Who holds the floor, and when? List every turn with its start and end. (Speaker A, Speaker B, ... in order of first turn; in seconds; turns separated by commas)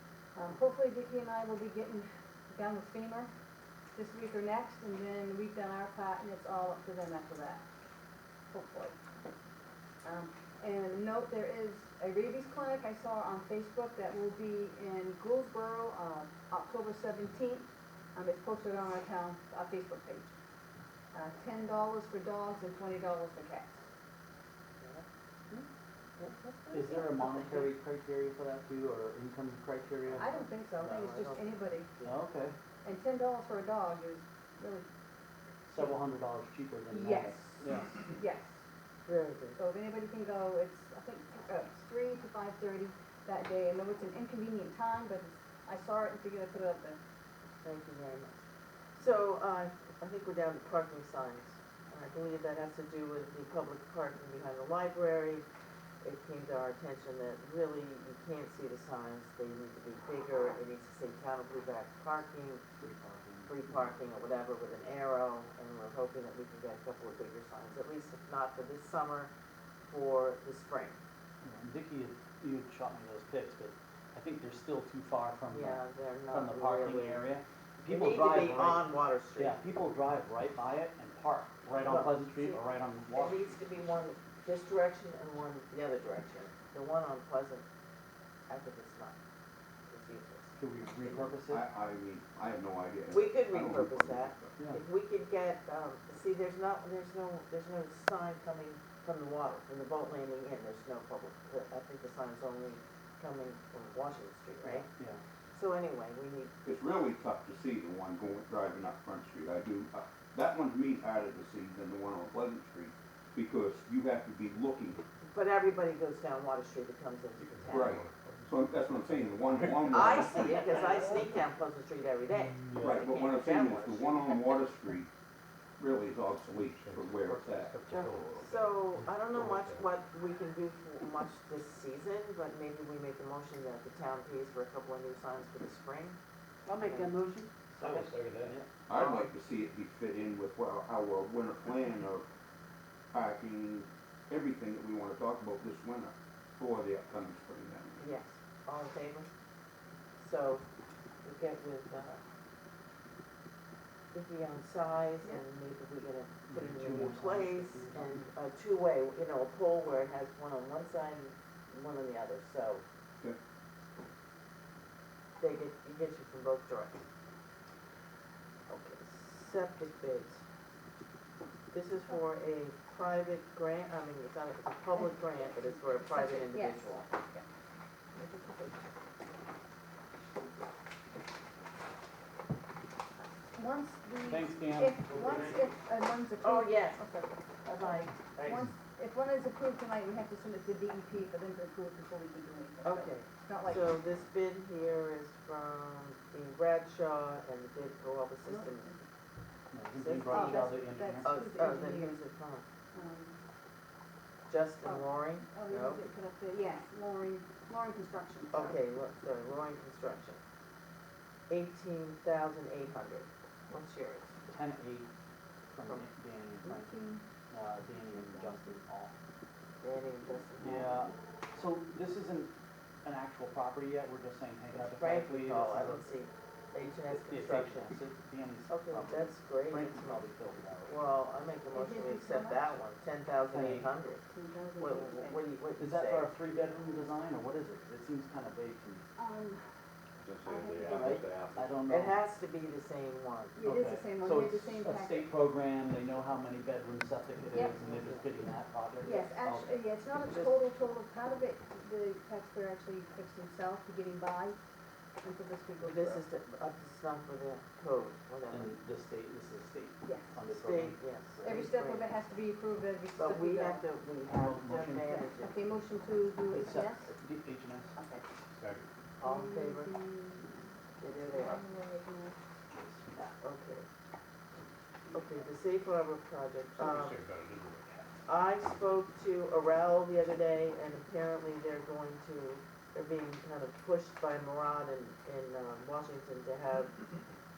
Speaker A: 0.3-3.3, Speaker A: 4.0-7.7, Speaker A: 8.5-9.0, Speaker A: 10.0-20.3, Speaker A: 21.1-23.8, Speaker B: 24.8-25.1, Speaker B: 26.2-27.7, Speaker C: 26.7-30.8, Speaker A: 30.2-31.9, Speaker B: 30.8-32.2, Speaker C: 32.0-32.6, Speaker A: 32.8-34.9, Speaker C: 35.7-38.0, Speaker A: 36.9-38.5, Speaker B: 39.1-39.6, Speaker A: 39.6-47.0, Speaker B: 47.6-48.4, Speaker B: 49.0-55.5, Speaker B: 56.0-62.6, Speaker C: 62.8-63.9, Speaker B: 63.5-69.3, Speaker B: 69.9-71.0, Speaker C: 71.4-83.5, Speaker B: 75.5-77.2, Speaker B: 77.9-79.6, Speaker B: 81.8-82.6, Speaker B: 83.1-87.7, Speaker B: 88.5-89.2, Speaker B: 89.9-91.2, Speaker C: 90.6-91.6, Speaker D: 91.5-94.5, Speaker B: 93.1-104.9, Speaker C: 104.6-105.2, Speaker B: 105.5-106.5, Speaker D: 106.7-115.0, Speaker B: 115.3-118.0, Speaker E: 117.4-121.3, Speaker D: 117.7-120.5, Speaker B: 119.9-124.6, Speaker D: 122.8-125.1, Speaker D: 125.8-127.8, Speaker E: 126.5-129.9, Speaker B: 128.4-136.2, Speaker B: 136.8-137.2, Speaker E: 137.8-138.6, Speaker C: 137.8-138.7, Speaker D: 138.9-142.3, Speaker D: 143.1-148.1, Speaker B: 148.0-149.3, Speaker B: 150.2-150.6, Speaker B: 151.2-152.2, Speaker B: 154.1-162.8, Speaker C: 156.5-158.3, Speaker B: 165.4-167.0, Speaker B: 168.7-170.4, Speaker B: 171.7-177.1, Speaker A: 176.1-177.4, Speaker A: 178.2-178.8, Speaker A: 183.5-193.9, Speaker C: 184.2-185.6, Speaker B: 186.4-187.0, Speaker B: 187.7-188.1, Speaker B: 192.8-199.0, Speaker A: 198.4-199.0, Speaker C: 199.7-201.3, Speaker B: 199.9-202.6, Speaker A: 200.3-202.2, Speaker A: 202.9-203.4, Speaker B: 204.5-206.0, Speaker A: 204.8-208.8, Speaker B: 208.5-210.4, Speaker B: 211.5-214.3, Speaker C: 214.5-215.1, Speaker C: 215.7-216.9, Speaker A: 216.6-217.2, Speaker C: 217.5-219.1, Speaker A: 218.1-218.8, Speaker B: 219.8-221.1, Speaker C: 220.6-222.5, Speaker C: 223.0-226.0, Speaker B: 224.8-227.9, Speaker C: 227.1-231.0, Speaker B: 228.7-230.3, Speaker B: 230.9-234.2, Speaker A: 231.7-232.8, Speaker C: 233.5-233.9, Speaker A: 234.3-235.4, Speaker B: 234.8-236.3, Speaker C: 235.8-239.1, Speaker A: 239.2-239.6, Speaker A: 240.5-241.2, Speaker E: 240.5-241.7, Speaker D: 240.5-241.2, Speaker C: 240.9-242.2, Speaker B: 241.9-243.6, Speaker A: 243.6-245.3, Speaker C: 243.6-249.8, Speaker B: 247.8-248.2, Speaker A: 249.0-254.6, Speaker A: 255.2-256.2, Speaker B: 255.8-258.7, Speaker C: 258.5-261.5, Speaker A: 260.0-260.4, Speaker B: 260.5-262.2, Speaker A: 261.4-263.8, Speaker B: 263.1-265.6, Speaker C: 264.3-265.3, Speaker A: 265.4-267.1, Speaker C: 266.5-267.9, Speaker A: 267.9-268.3, Speaker E: 268.6-268.9, Speaker B: 269.2-269.9, Speaker A: 269.2-270.7, Speaker B: 271.0-271.6, Speaker A: 271.2-272.4, Speaker C: 272.7-273.3, Speaker B: 273.4-273.9, Speaker B: 275.1-277.2, Speaker E: 276.8-278.0, Speaker B: 278.3-287.1